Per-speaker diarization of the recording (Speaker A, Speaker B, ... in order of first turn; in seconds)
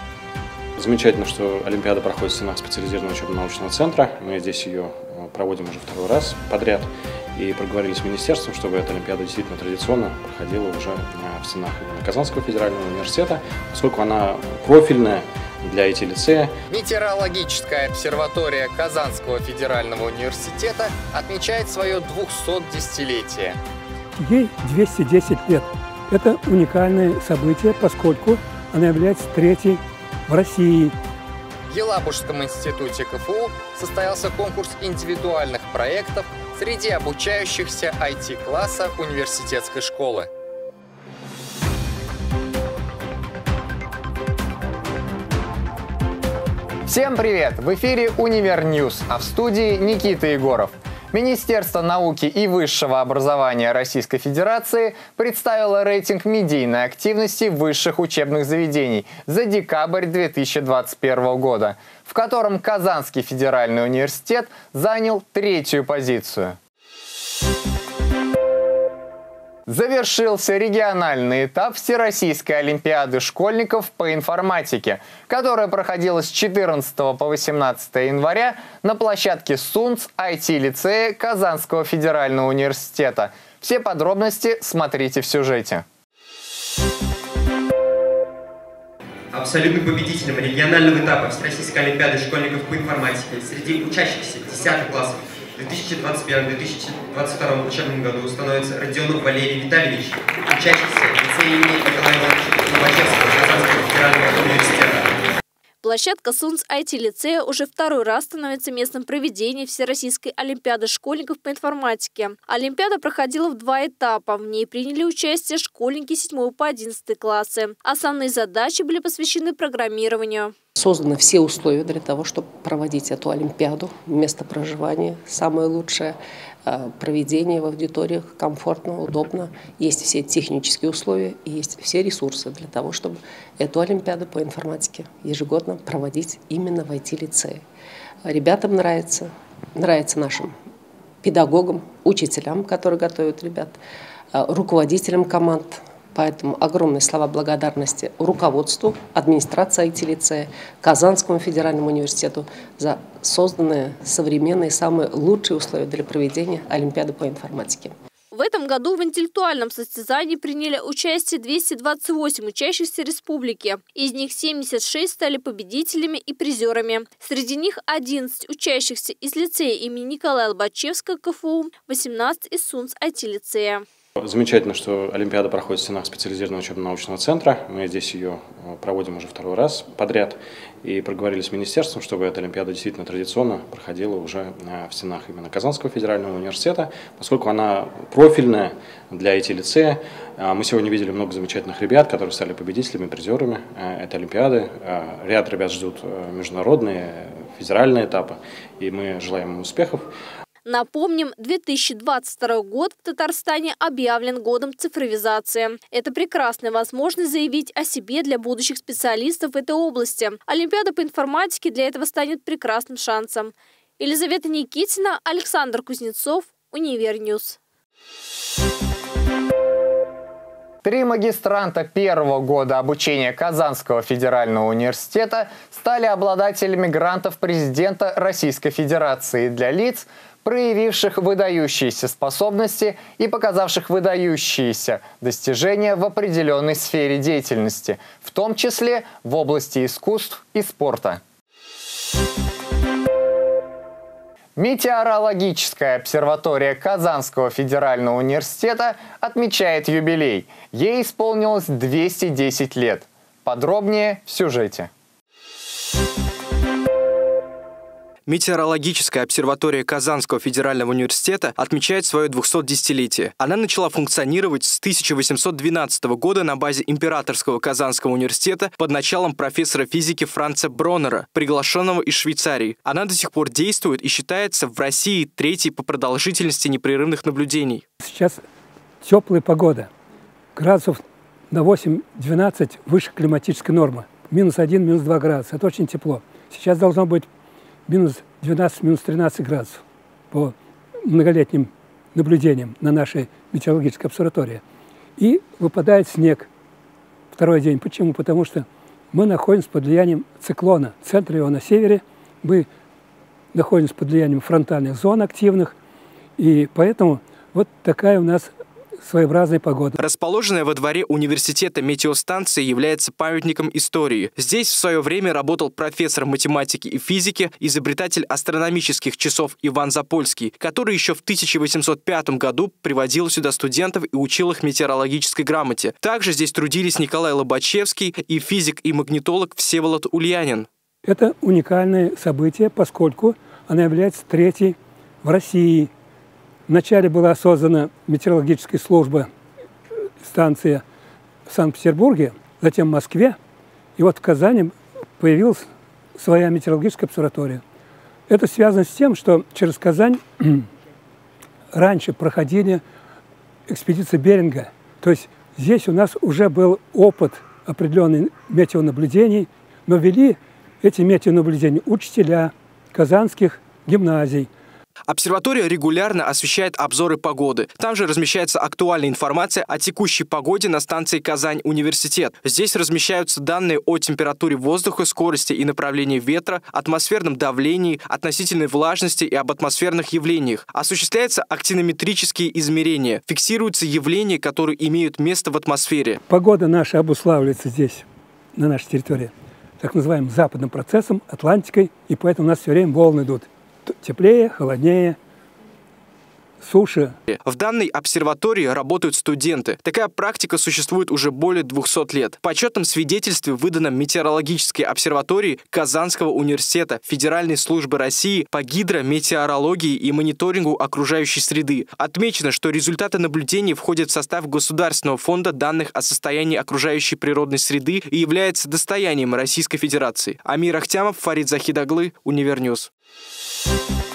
Speaker A: 0.8-16.5, 174.2-200.1
Speaker B: 16.7-23.6, 31.7-40.3, 46.9-66.6, 69.7-85.8, 220.8-241.2, 244.6-254.9
Speaker C: 24.1-30.9, 278.0-278.4, 279.0-279.9, 280.6-287.3, 287.9-290.5, 291.0-294.6, 295.2-296.5, 297.3-302.7, 303.5-305.7, 306.4-308.5, 309.0-310.0, 331.0-335.9, 336.7-339.3, 340.2-340.8, 341.5-343.4, 344.0-345.6, 346.2-347.6, 348.3-350.6, 351.7-352.8, 353.7-364.5, 386.3-388.0, 388.5-395.2, 396.6-397.1
Speaker D: 89.3-105.1
Speaker E: 105.8-120.5, 158.3-173.8, 200.6-217.6
Speaker F: 120.8-137.6, 138.2-140.5, 141.2-143.8, 144.3-157.9
Speaker G: 258.3-277.8, 310.0-330.7, 365.1-386.2, 397.3-422.9